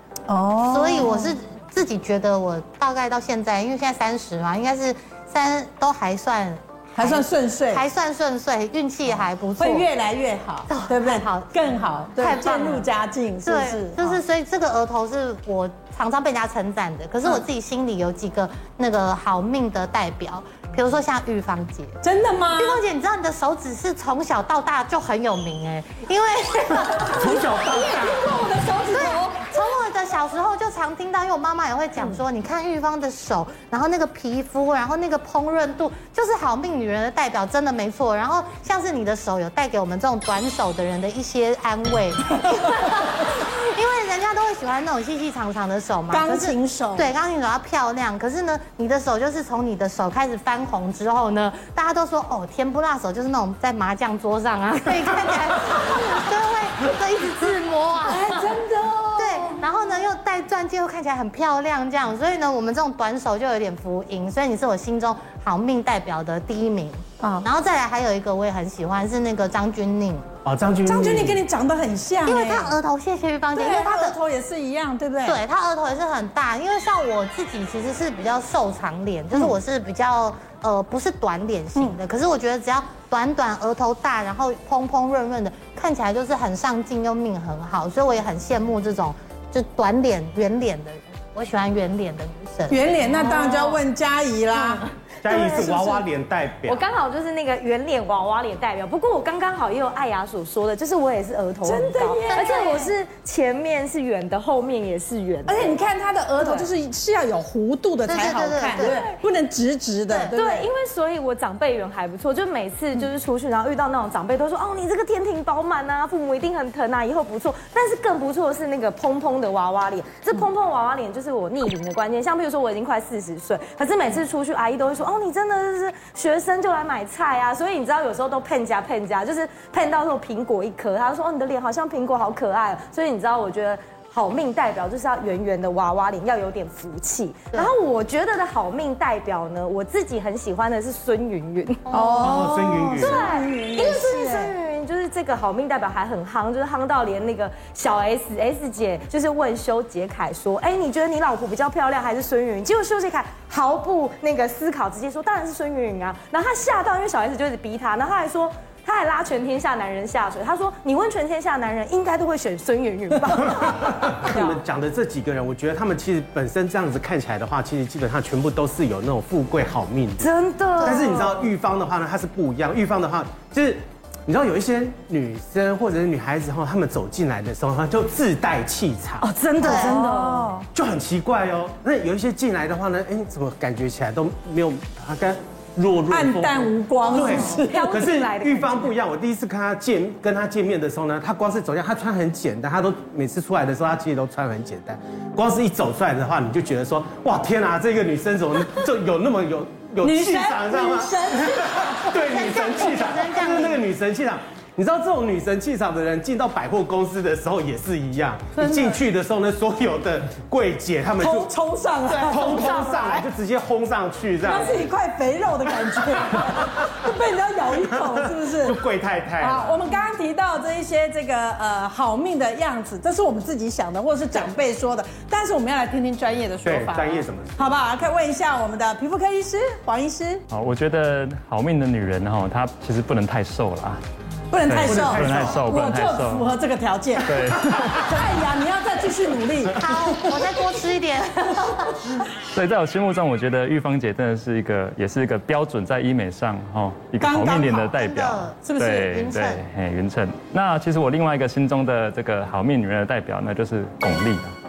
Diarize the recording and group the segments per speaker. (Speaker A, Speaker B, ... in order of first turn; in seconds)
Speaker A: 0.3-1.3, 7.0-7.8, 9.6-14.2, 22.0-22.8, 26.9-29.5, 46.1-47.1, 58.0-59.6, 67.2-67.5, 70.8-72.7, 73.5-75.4, 92.7-96.0, 101.6-102.9, 105.5-110.7, 141.9-144.6, 179.4-180.6, 186.1-188.1, 200.0-202.9, 208.6-209.0, 211.2-213.2, 214.4-218.8, 219.4-230.4, 234.5-240.6, 247.2-247.7, 248.6-249.1
Speaker B: 0.7-9.9, 10.7-12.9, 13.4-21.9, 22.6-27.3, 28.9-58.5, 59.1-70.3, 72.2-74.2, 75.2-92.9, 102.3-102.7, 108.1-109.0, 110.1-110.4, 141.9-142.4, 170.8-171.2, 179.6-180.0, 202.2-203.8, 239.8-242.0, 247.5-249.6
Speaker C: 27.1-28.2, 70.4-71.4, 95.2-96.8, 142.2-143.2, 164.0-170.3, 170.8-179.3, 180.7-211.5, 212.1-214.8, 217.9-219.8, 226.6-227.7, 234.7-235.7
Speaker D: 93.1-93.8, 94.5-96.0, 96.6-105.8, 106.3-106.7, 108.7-109.1, 110.3-164.6, 170.2-171.5, 179.2-180.6, 187.1-188.9
Speaker E: 230.5-234.0, 234.6-236.6, 237.2-238.0, 242.5-254.5